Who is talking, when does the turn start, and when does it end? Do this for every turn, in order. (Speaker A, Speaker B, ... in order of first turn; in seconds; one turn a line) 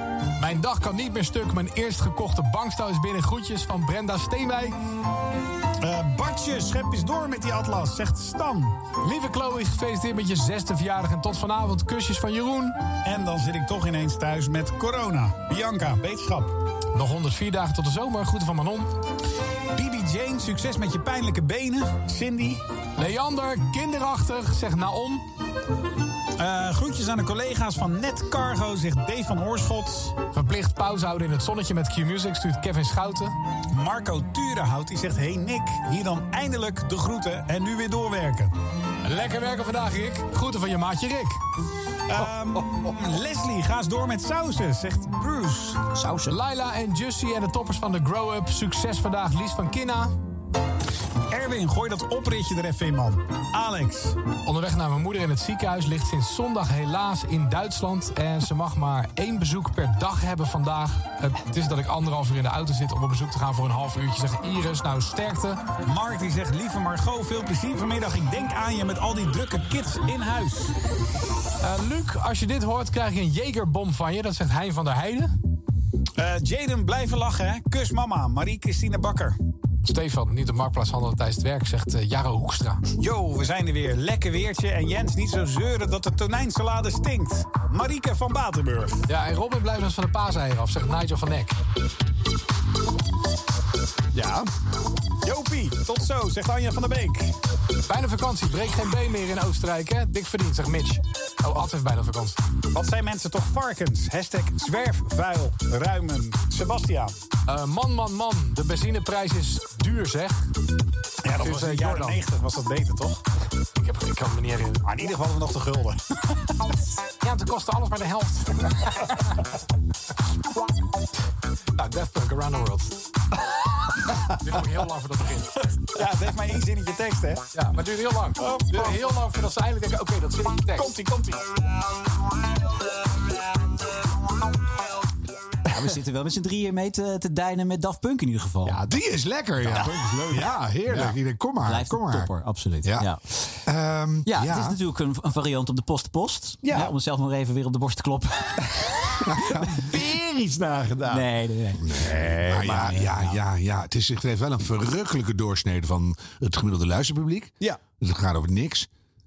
Speaker A: 0.4-4.8
Speaker B: 5.8-8.8
Speaker A: 9.0-12.8
Speaker B: 13.0-16.5
Speaker A: 16.9-18.9
Speaker B: 19.7-22.6
Speaker A: 23.0-25.2
Speaker B: 26.4-30.2
Speaker A: 30.2-33.3
Speaker B: 33.7-38.5
Speaker A: 39.0-41.4
Speaker B: 42.1-45.8
Speaker C: 45.9-46.4
Speaker A: 46.3-50.1
Speaker B: 51.3-54.1
Speaker A: 54.4-65.6
Speaker B: 65.8-70.7
Speaker A: 71.6-75.3
Speaker B: 76.2-79.4
Speaker A: 79.8-82.8
Speaker B: 83.0-89.0
Speaker A: 89.1-91.6
Speaker B: 95.2-97.3
Speaker A: 97.9-102.4
Speaker B: 102.7-107.1
Speaker A: 107.5-110.5
Speaker B: 111.2-113.2
Speaker A: 111.4-112.2
Speaker A: 113.8-114.9
Speaker B: 114.8-116.0
Speaker A: 117.2-118.7
Speaker A: 121.8-123.0
Speaker A: 124.4-125.5
Speaker B: 125.9-127.5
Speaker A: 127.5-131.0
Speaker B: 128.4-129.0
Speaker B: 130.8-131.4
Speaker C: 135.7-138.8
Speaker D: 138.7-138.9
Speaker E: 138.8-142.3
Speaker D: 139.6-141.1
Speaker C: 141.6-143.2
Speaker E: 142.8-143.1
Speaker E: 143.6-144.8
Speaker C: 144.2-148.6
Speaker D: 146.6-146.9
Speaker E: 149.3-149.7
Speaker D: 149.6-151.2
Speaker C: 151.1-153.4
Speaker E: 151.8-158.9
Speaker D: 151.9-153.1